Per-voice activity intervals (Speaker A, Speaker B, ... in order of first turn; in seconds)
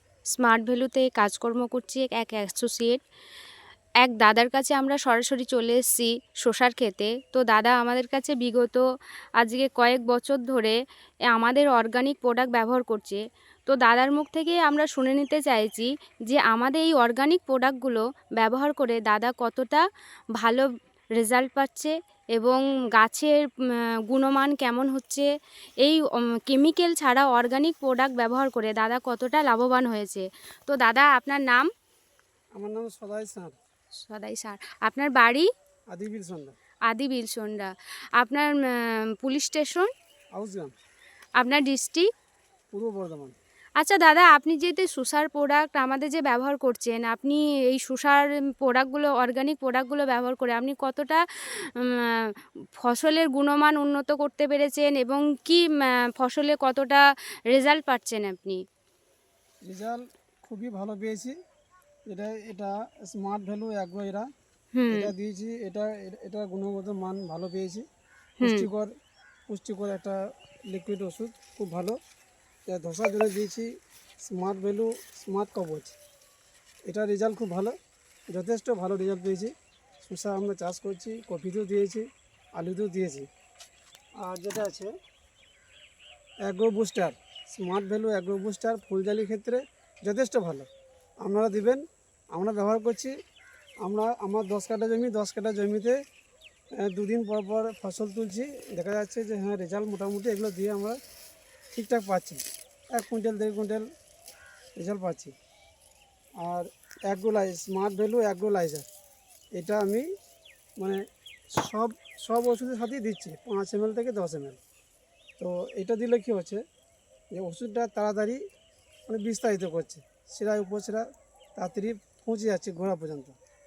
Speaker A: 0.3-3.0, 4.0-8.8, 9.4-10.8, 11.3-19.9, 20.4-25.3, 25.8-31.7, 34.0-35.5, 36.9-39.9, 41.4-42.1, 43.8-58.6, 64.8-65.1, 68.4-68.7
Speaker B: 32.6-33.6, 35.9-36.5, 40.4-40.7, 42.7-43.4, 59.7-61.4, 62.1-64.3, 64.9-67.8, 68.4-68.9, 69.5-70.2, 70.7-72.0, 72.7-73.7, 74.2-76.0, 76.9-77.7, 78.3-83.3, 84.2-84.9, 86.5-90.7, 91.2-93.2, 93.8-96.0, 96.8-101.0, 101.7-103.9, 104.8-105.3, 106.4-108.9, 109.5-110.1, 111.6-114.6, 115.4-116.6, 117.3-118.4, 119.1-121.0, 121.6-123.3